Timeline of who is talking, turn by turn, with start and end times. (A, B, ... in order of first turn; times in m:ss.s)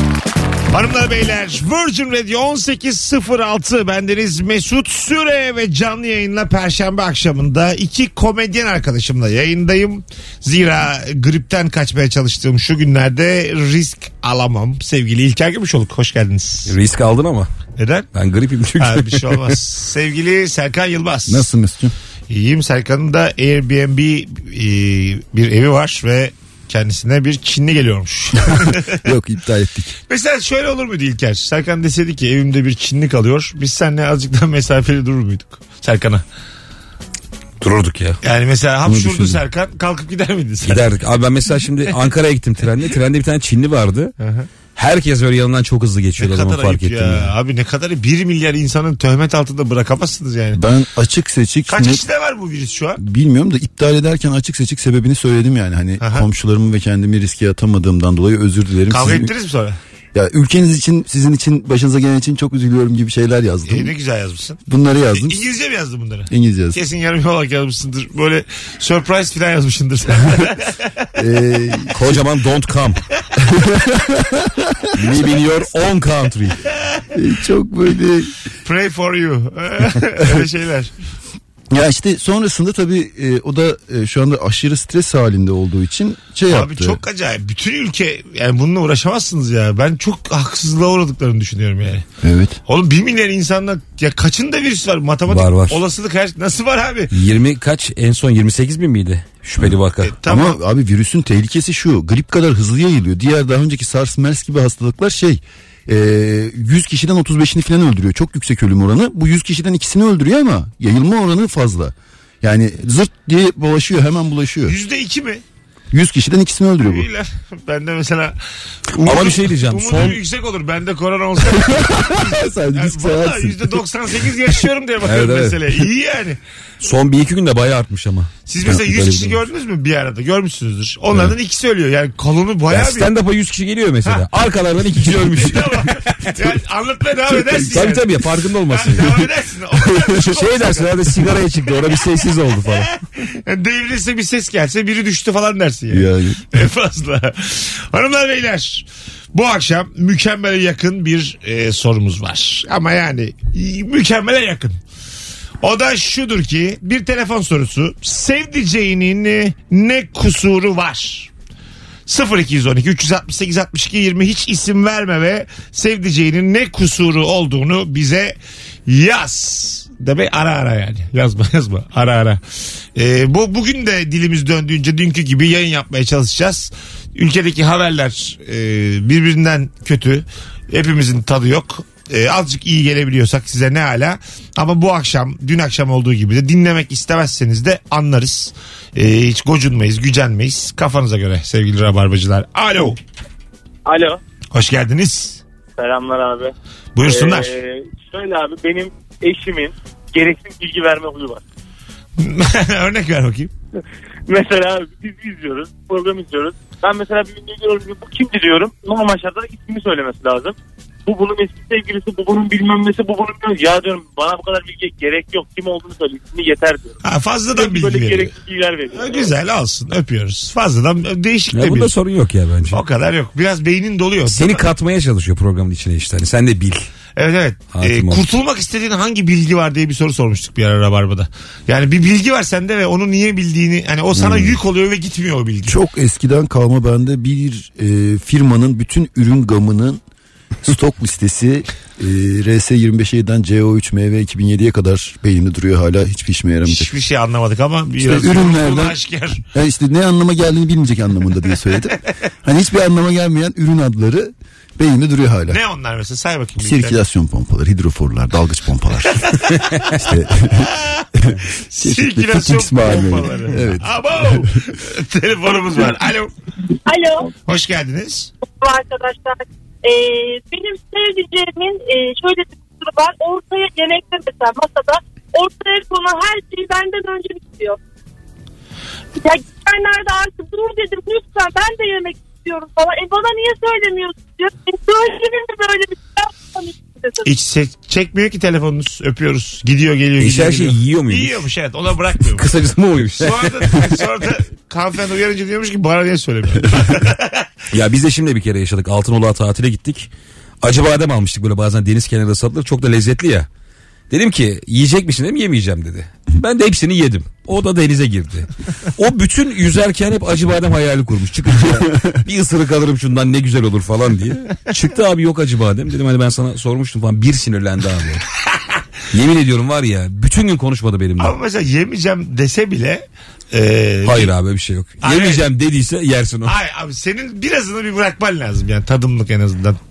0:00.7-0:16.7 A
0:16.6-0:17.5 B
0:17.8-0:18.1 A
0:18.1-0:19.5 B
0:18.8-0:21.4 A
0:21.2-0:21.9 C
0:22.3-0:29.0 A
0:29.0-0:30.0 C
0:30.1-0:36.2 A
0:37.6-0:38.2 B
0:38.2-0:40.8 A
0:38.8-0:39.4 C
0:40.6-0:44.1 B
0:44.2-0:44.5 A
0:44.8-0:47.3 B
0:46.2-0:50.6 A
0:50.5-0:52.0 C
0:51.7-0:53.0 A
0:53.0-0:59.3 C
0:56.0-0:56.2 A
0:58.9-0:59.8 A
1:00.1-1:03.9 C
1:03.6-1:04.6 A
1:04.6-1:05.4 C
1:05.1-1:10.7 A
1:06.3-1:06.8 C
1:11.2-1:12.1 C
1:11.9-1:13.0 B
1:13.4-1:14.9 C
1:15.0-1:16.6 B
1:17.1-1:18.3 C
1:18.6-1:20.9 A
1:21.7-1:27.0 C
1:26.5-1:32.0 A
1:32.2-1:32.6 C
1:32.7-1:37.1 A
1:35.3-1:35.8 B
1:37.1-1:40.1 B
1:40.0-1:40.6 A
1:40.2-1:54.8 C
1:54.6-1:55.4 A
1:55.9-1:57.1 C
1:56.8-1:58.4 A
1:58.9-2:06.4 A
1:59.0-2:00.2 B
2:01.7-2:03.8 C
2:05.0-2:05.9 B
2:06.8-2:09.4 B
2:08.5-2:13.1 A
2:12.7-2:16.5 B
2:15.0-2:21.2 A
2:17.6-2:22.9 B
2:22.6-2:34.8 A
2:25.9-2:26.4 C
2:35.6-2:41.3 A
2:42.1-2:48.4 A
2:48.9-2:52.4 A
2:52.9-3:13.0 A
3:13.8-3:14.2 D
3:14.5-3:15.4 A
3:15.8-3:16.5 D
3:16.9-3:17.5 A
3:17.0-3:21.4 D
3:22.2-3:23.5 A
3:24.3-3:37.0 D
3:37.0-3:38.3 A
3:37.5-3:39.3 D
3:38.9-3:41.9 A
3:41.5-3:42.8 B
3:42.7-3:44.6 A
3:44.2-3:46.9 B
3:47.2-3:55.8 A
3:47.7-3:48.2 B
3:54.1-3:54.6 C
3:55.6-4:00.0 C
4:00.6-4:06.9 C
4:06.6-4:09.4 A
4:08.0-4:09.0 C
4:09.5-4:15.6 C
4:15.5-4:17.0 A
4:16.6-4:19.4 C
4:19.1-4:19.9 A
4:19.9-4:24.2 C
4:21.7-4:26.3 A
4:26.8-4:27.3 E
4:27.4-4:28.3 A
4:28.4-4:37.8 E
4:39.2-4:47.3 E
4:47.2-4:52.4 A
4:50.2-4:51.4 B
4:52.2-4:53.9 B
4:53.2-4:57.4 A
4:57.7-5:00.1 B
5:00.6-5:03.5 B
5:04.1-5:18.2 B
5:19.1-5:21.4 B
5:21.2-5:24.3 A
5:24.0-5:26.6 B
5:25.0-5:25.4 A
5:26.4-5:29.8 A